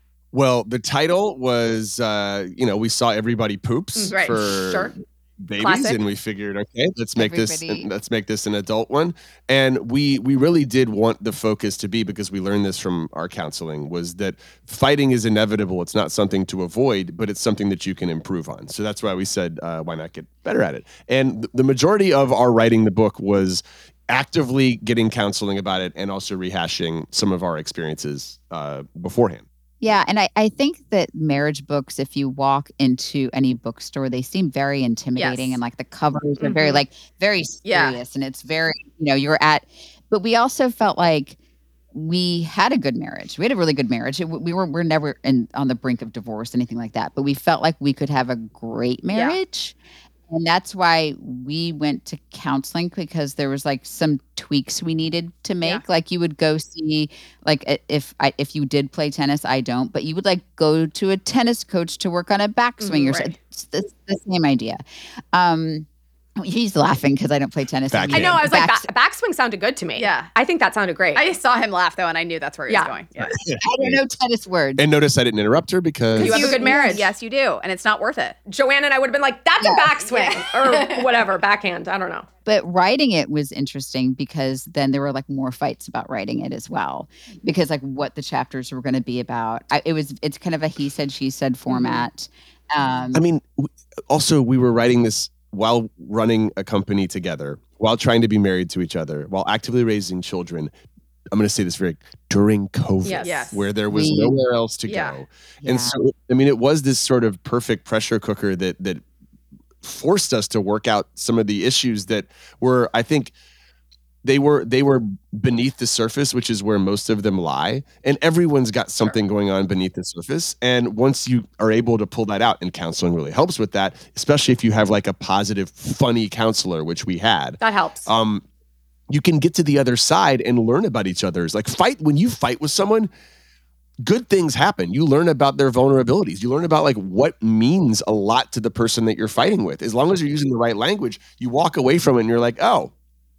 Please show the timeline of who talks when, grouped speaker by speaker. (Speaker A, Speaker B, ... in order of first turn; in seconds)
Speaker A: 0.3-29.4, 67.9-68.4, 73.2-74.0, 74.8-76.5, 93.1-100.7, 101.3-109.0, 109.8-113.3, 114.2-128.4, 129.1-133.1, 134.0-142.9
Speaker B: 4.1-4.9, 35.1-35.6, 37.6-38.0, 49.1-49.4, 62.8-63.3, 70.0-70.3, 71.1-73.3, 76.2-78.4, 80.0-81.0, 103.2-103.6, 104.8-105.2
Speaker C: 5.6-6.0, 68.1-71.2, 76.2-77.1, 78.5-82.3, 103.0-103.6, 127.6-128.1
Speaker D: 7.2-7.9, 29.8-41.4, 41.9-49.8, 50.3-65.8, 66.4-68.9, 73.6-74.8, 79.6-79.9, 82.5-93.2, 103.9-104.4, 105.6-106.0